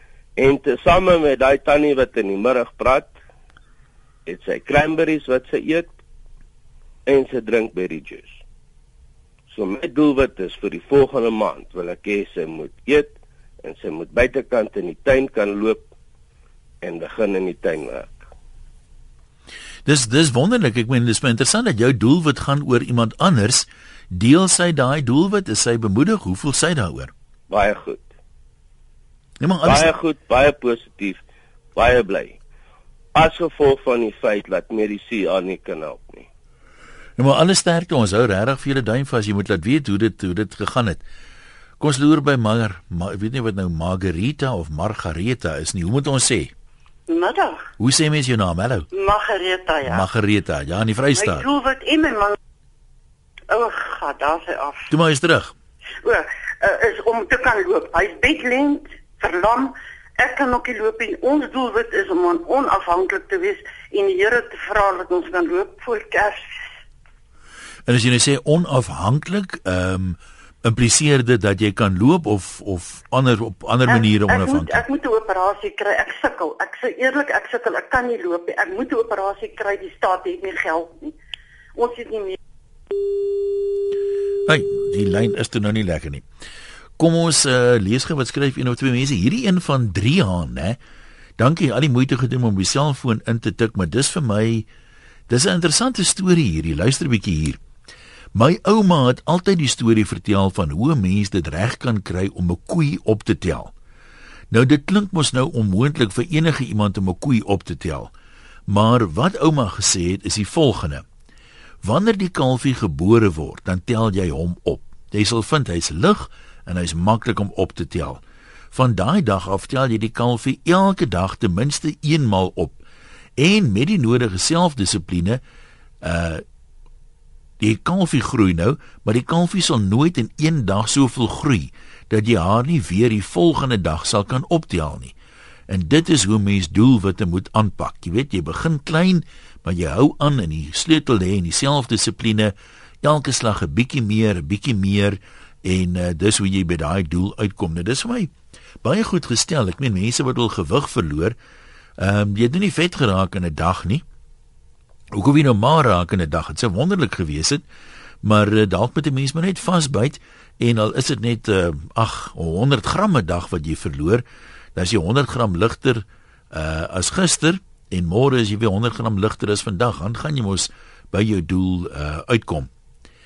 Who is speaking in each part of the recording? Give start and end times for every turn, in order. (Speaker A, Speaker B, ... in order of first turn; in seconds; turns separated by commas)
Speaker A: 0.4-3.1, Speaker A: 4.2-5.9, Speaker A: 7.1-8.4, Speaker A: 9.5-15.9, Speaker A: 16.8-18.2, Speaker B: 19.9-27.1, Speaker A: 27.5-28.1, Speaker B: 29.4-29.9, Speaker A: 29.6-31.2, Speaker A: 31.7-32.4, Speaker A: 33.1-36.3, Speaker B: 37.2-41.0, Speaker B: 41.8-46.5, Speaker C: 47.1-47.6, Speaker B: 47.8-48.9, Speaker C: 48.9-50.1, Speaker B: 49.8-51.5, Speaker C: 51.2-52.4, Speaker C: 53.5-54.9, Speaker B: 54.9-55.5, Speaker C: 56.0-66.5, Speaker B: 67.9-74.8, Speaker C: 73.9-81.1, Speaker C: 81.8-82.4, Speaker B: 84.5-86.2, Speaker B: 87.0-90.8, Speaker B: 91.4-94.6, Speaker B: 95.3-97.6, Speaker B: 98.3-103.7, Speaker B: 104.5-108.1, Speaker B: 108.7-111.0, Speaker B: 111.8-118.2, Speaker B: 118.7-122.8, Speaker B: 123.4-125.4, Speaker B: 126.0-126.4, Speaker B: 127.6-135.1, Speaker B: 135.7-148.3, Speaker B: 148.8-151.3, Speaker B: 152.0-154.0, Speaker B: 155.1-157.6, Speaker B: 158.2-164.2, Speaker B: 164.7-172.7